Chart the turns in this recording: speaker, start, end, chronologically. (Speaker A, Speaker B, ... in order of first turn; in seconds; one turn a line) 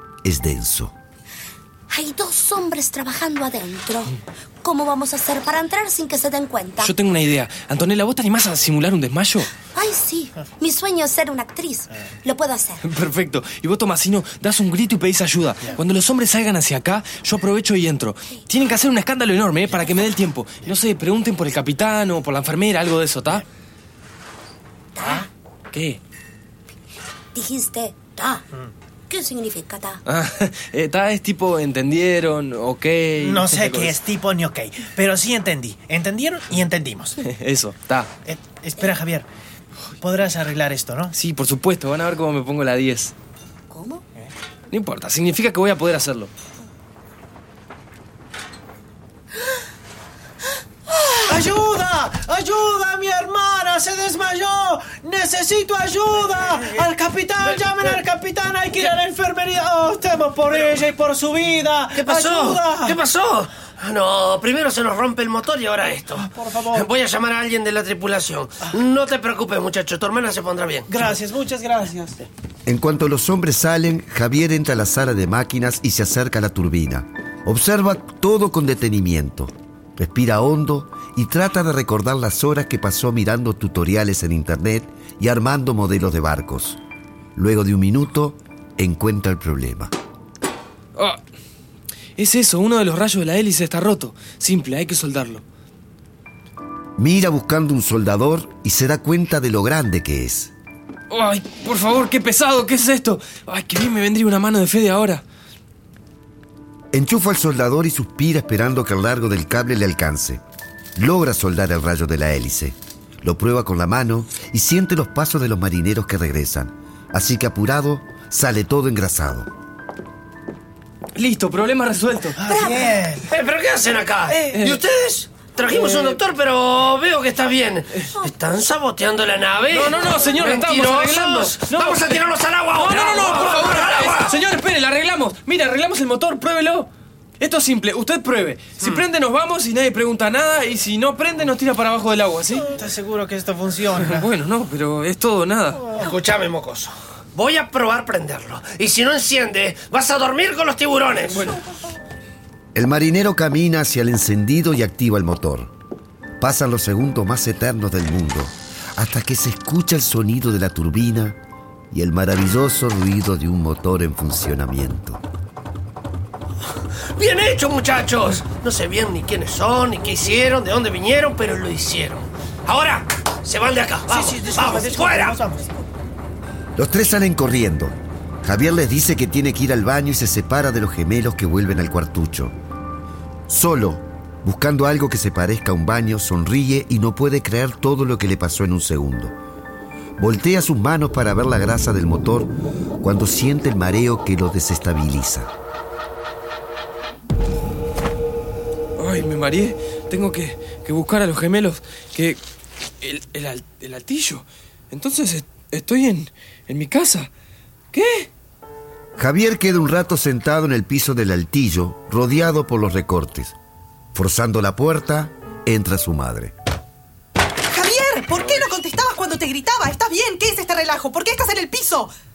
Speaker A: 0.2-0.9
Speaker B: 1.9-6.9
Speaker C: 6.8-9.5
Speaker B: 9.7-12.8
Speaker C: 12.8-23.4
Speaker B: 24.9-25.3
Speaker C: 25.7-26.0
Speaker B: 27.3-28.4
Speaker B: 29.1-30.0
Speaker C: 30.1-34.0
Speaker D: 33.2-37.2
Speaker C: 37.2-38.1
Speaker D: 38.2-39.3
Speaker D: 40.0-41.1
Speaker C: 41.1-43.1
Speaker B: 43.7-44.0
Speaker C: 44.7-46.3
Speaker D: 51.2-63.0
Speaker E: 61.9-71.1
Speaker D: 66.1-66.9
Speaker D: 70.9-72.2
Speaker A: 72.7-86.8
Speaker A: 87.3-89.9
Speaker C: 90.9-91.2
Speaker C: 92.2-95.4
Speaker A: 97.0-100.5
Speaker C: 101.1-105.2
Speaker A: 106.9-110.4
Speaker A: 111.0-119.5
Speaker C: 121.1-122.4
Speaker D: 122.4-123.3
Speaker B: 122.5-123.0
Speaker E: 123.3-134.4
Speaker D: 124.3-124.6
Speaker C: 124.5-124.8
Speaker C: 125.7-126.1
Speaker C: 129.7-136.9
Speaker C: 137.4-142.7
Speaker D: 142.7-144.3
Speaker C: 143.9-145.9
Speaker E: 145.9-151.5
Speaker C: 151.3-151.6
Speaker A: 152.7-155.7
Speaker A: 156.4-161.4
Speaker A: 161.9-165.2
Speaker E: 167.2-175.4
Speaker D: 174.1-175.7
Speaker A: 176.8-182.5
Speaker A: 183.5-189.3
Speaker A: 190.2-195.5
Speaker C: 199.0-202.4
Speaker C: 203.0-207.3
Speaker C: 207.9-208.3
Speaker A: 209.2-213.6
Speaker A: 214.1-216.5
Speaker F: 217.7-222.1
Speaker C: 218.4-218.7